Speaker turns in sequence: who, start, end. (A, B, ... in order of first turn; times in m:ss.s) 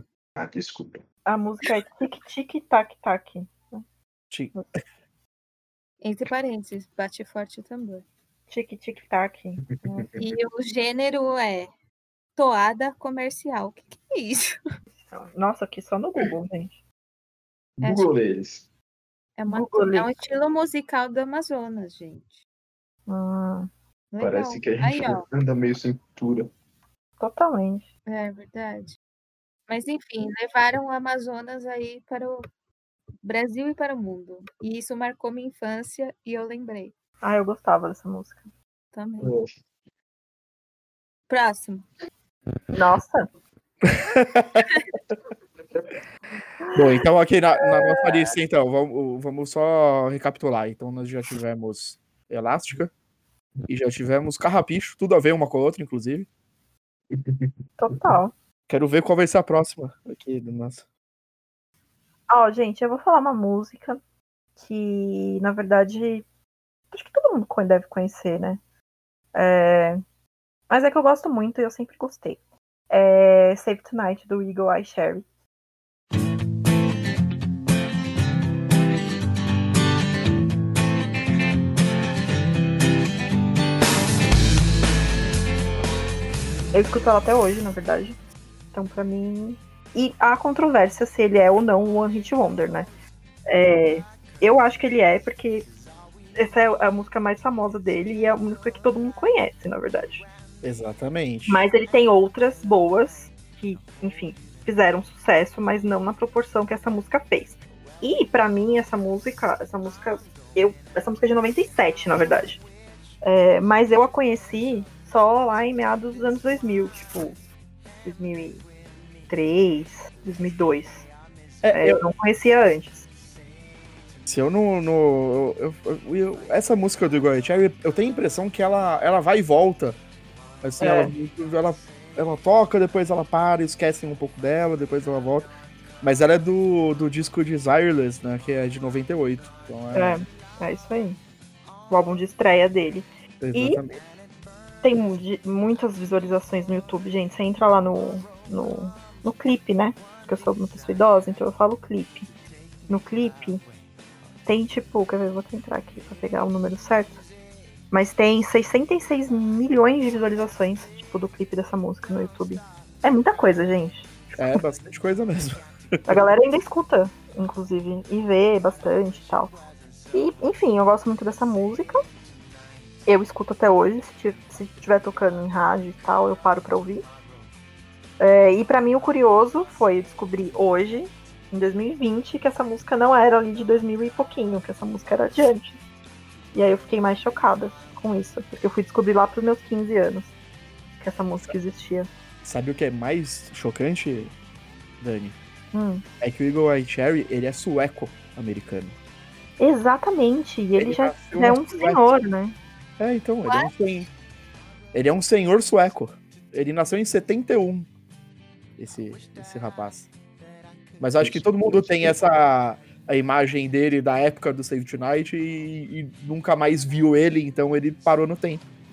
0:00.4-0:01.0 A
0:01.2-0:03.8 B
0:06.0-0:08.0 C
0:08.5-0:10.0 B
0:09.8-0:10.2 A
0:10.2-0:11.7 C
0:12.4-0:14.6 C
0:15.1-0:16.8 B
0:17.8-0:18.6 A
0:17.8-0:18.1 C
0:19.4-0:22.4 C
0:19.5-0:20.1 B
0:23.1-0:23.7 B
0:24.1-0:25.2 C
0:24.2-0:26.5 A
0:27.2-0:27.8 B
0:28.1-0:29.0 C
0:29.7-0:32.4 C
0:33.2-0:36.9 C
0:37.2-0:38.4 B
0:38.9-0:39.4 C
0:39.2-0:39.5 A
0:41.3-0:41.8 C
0:42.7-0:43.3 B
0:43.8-0:44.7 D
0:46.7-0:52.9 D
0:53.7-0:56.3 D
0:57.1-0:57.5 A
0:57.8-0:58.3 B
0:58.7-1:00.8 D
1:02.3-1:04.0 B
1:04.6-1:06.2 B
1:06.9-1:08.6 B
1:09.3-1:10.0 B
1:10.7-1:12.4 B
1:12.9-1:15.2 B
1:26.7-1:28.2 B
1:28.7-1:32.9 B
1:33.5-1:35.7 B
1:36.4-1:40.2 B
1:40.6-1:41.6 D
1:41.5-1:52.6 B
1:53.2-1:57.4 B
1:58.0-1:58.6 B
1:59.3-2:01.1 B
2:01.6-2:02.0 D
2:01.7-2:03.1 B
2:04.2-2:10.0 D
2:10.6-2:15.5 D
2:10.8-2:11.1 B
2:16.0-2:20.2 D
2:19.9-2:21.2 B
2:21.9-2:23.8 B
2:23.4-2:24.0 D
2:24.8-2:32.3 B
2:32.9-2:33.6 B
2:34.4-2:37.2 B
2:37.9-2:44.6 B
2:44.3-2:46.1 D
2:46.0-2:49.6 B
2:50.1-2:52.0 B
2:53.0-2:57.0 B
2:58.2-3:05.8 B
3:06.5-3:10.3 B
3:11.0-3:12.1 B
3:12.4-3:14.3 D
3:15.0-3:15.4 D
3:15.7-3:16.0 B
3:16.2-3:18.9 D
3:19.6-3:22.6 B
3:20.8-3:22.1 D
3:23.0-3:24.1 D
3:23.4-3:23.7 C
3:24.9-3:27.9 D
3:28.8-3:30.1 D
3:31.0-3:38.6 D
3:31.2-3:32.2 A